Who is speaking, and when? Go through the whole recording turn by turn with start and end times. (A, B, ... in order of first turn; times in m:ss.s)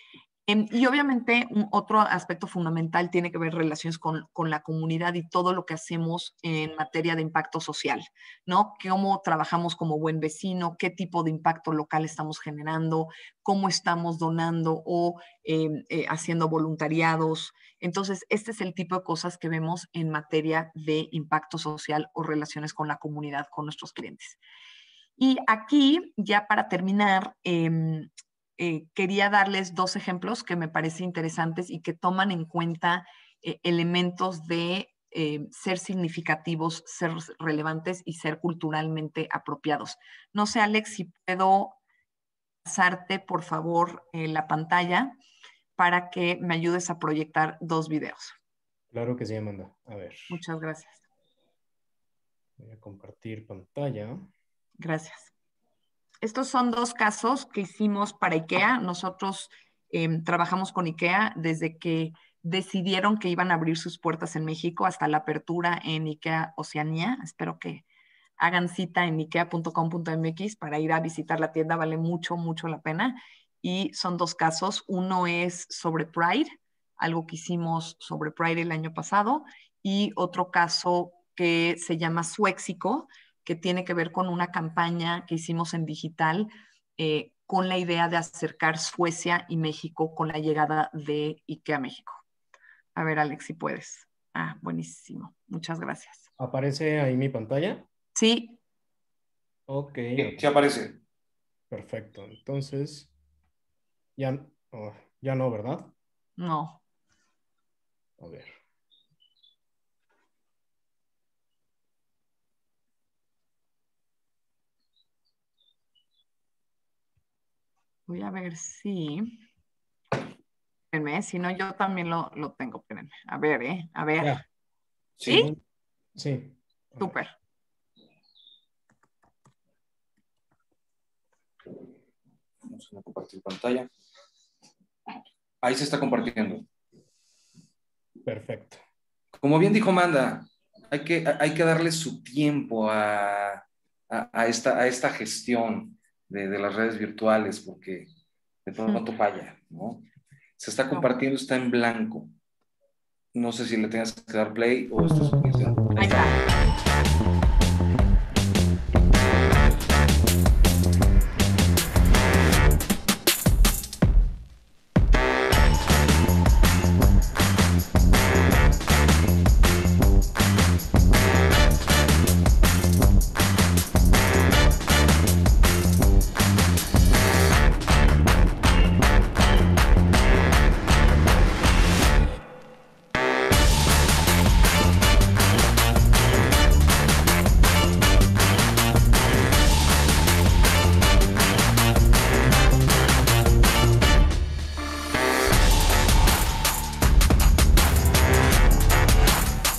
0:00.5-0:24.4 A
0:25.2-0:41.8 A
0:42.6-0:45.2 A
0:45.8-0:48.4 A
0:48.9-0:50.4 B
0:50.3-0:51.0 A
0:52.6-0:54.3 B
0:54.8-0:55.3 A
0:56.2-1:07.8 A
1:08.4-1:32.2 A
1:33.0-1:36.3 A
1:36.4-1:37.9 B
1:38.2-1:38.6 A
1:39.7-1:40.4 B
1:40.2-1:41.0 C
1:41.7-1:43.1 B
1:44.2-1:45.9 B
1:46.4-1:46.8 A
1:48.2-1:48.5 B
1:58.1-1:59.4 A
2:00.9-2:04.4 A
2:05.2-2:05.5 C
2:05.3-2:05.6 B
2:06.2-2:07.2 B
2:07.0-2:07.3 A
2:12.7-2:13.9 C
2:15.6-2:16.7 C
2:18.3-2:18.8 B
2:19.4-2:28.1 C
2:28.7-2:30.1 C
2:30.6-2:32.3 C
2:33.3-2:36.2 C
2:36.0-2:36.4 A